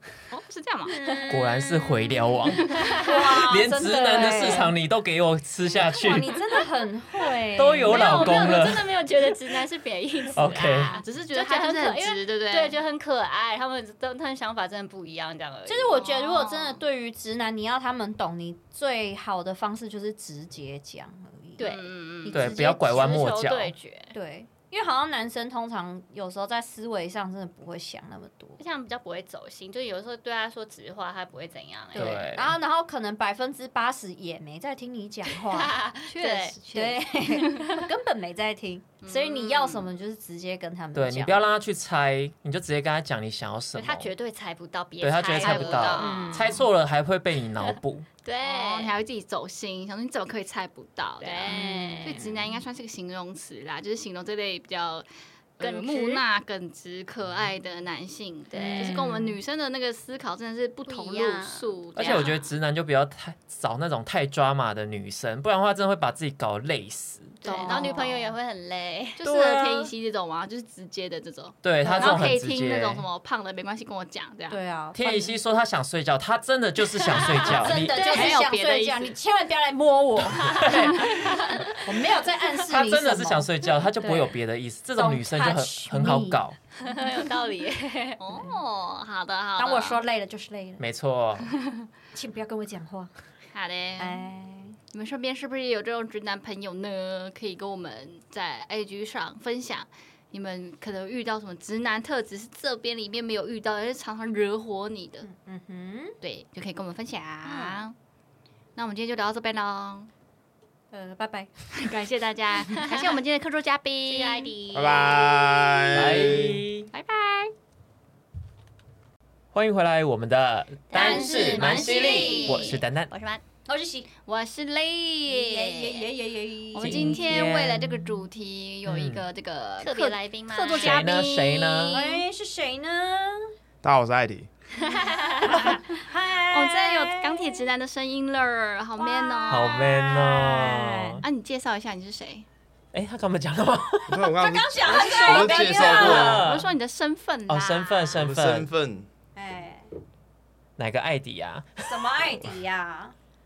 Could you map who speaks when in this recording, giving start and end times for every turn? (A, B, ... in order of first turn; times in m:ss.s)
0:00.3-0:01.0 A
0:00.9-0:01.8 B
0:00.9-0:01.6 C
0:01.3-0:06.3 D
0:02.7-0:03.1 C
0:03.0-0:04.7 B
0:05.8-0:08.4 B
0:07.6-0:08.9 D
0:07.8-0:16.0 C
0:10.3-0:11.0 D
0:11.0-0:12.8 A
0:15.7-0:21.7 B
0:16.0-0:16.8 A
0:21.6-0:21.9 C
0:21.6-0:22.6 A
0:22.2-0:23.0 B
0:22.3-0:23.7 D
0:22.5-0:24.1 C
0:24.1-0:28.6 B
0:28.6-0:32.2 C
0:31.9-0:32.6 D
0:31.9-0:35.7 B
0:35.5-0:36.6 C
0:36.1-0:37.8 A
0:36.7-0:41.4 B
0:39.0-0:39.9 A
0:40.9-0:44.1 D
0:43.7-0:46.3 C
0:45.0-0:48.1 D
0:45.4-0:46.5 A
0:46.0-0:46.6 B
0:47.6-0:48.9 C
0:48.4-0:55.0 A
0:51.2-0:52.2 C
0:51.5-0:52.5 B
0:55.6-1:02.4 A
0:55.6-0:56.2 C
0:58.5-0:59.0 C
0:58.5-0:59.4 B
1:00.8-1:02.3 C
1:01.9-1:07.4 D
1:07.4-1:08.0 A
1:07.4-1:08.3 B
1:07.4-1:09.2 C
1:09.2-1:14.6 A
1:09.2-1:09.9 D
1:11.6-1:13.0 D
1:11.8-1:12.3 B
1:14.5-1:15.4 B
1:14.9-1:18.1 D
1:17.1-1:24.4 B
1:17.9-1:18.4 C
1:18.0-1:19.2 A
1:20.5-1:21.7 C
1:20.6-1:21.1 D
1:22.7-1:26.6 D
1:25.0-1:26.4 B
1:26.8-1:28.2 C
1:28.2-1:30.0 A
1:28.3-1:28.6 B
1:29.6-1:30.8 B
1:30.8-1:31.5 D
1:32.1-1:33.1 B
1:33.5-1:34.2 A
1:34.0-1:34.8 B
1:34.9-1:45.3 A
1:45.2-1:46.2 B
1:46.2-1:47.9 A
1:47.5-1:47.8 C
1:48.8-1:50.1 A
1:50.9-1:51.5 B
1:51.7-1:54.5 A
1:52.7-1:53.1 C
1:54.1-1:55.5 C
1:54.7-1:56.6 E
1:55.9-1:56.9 D
1:56.9-1:57.5 A
1:59.5-2:03.1 D
2:00.9-2:03.4 C
2:01.0-2:02.8 B
2:01.3-2:02.6 A
2:03.6-2:04.1 B
2:04.2-2:06.2 A
2:05.3-2:07.2 B
2:06.7-2:12.2 A
2:06.8-2:08.3 D
2:08.8-2:09.2 D
2:09.8-2:11.1 C
2:10.8-2:12.0 D
2:11.9-2:13.5 B
2:13.8-2:14.5 E
2:14.8-2:17.7 B
2:14.9-2:15.6 C
2:16.4-2:20.1 A
2:19.0-2:21.2 B
2:19.5-2:21.2 D
2:21.2-2:22.4 A
2:22.9-2:24.3 D
2:24.1-2:26.5 E
2:24.4-2:26.4 B
2:25.0-2:26.7 D
2:25.8-2:28.1 A
2:27.5-2:28.7 D
2:28.1-2:29.1 E
2:29.3-2:29.9 B
2:30.8-2:32.1 D
2:31.8-2:33.1 B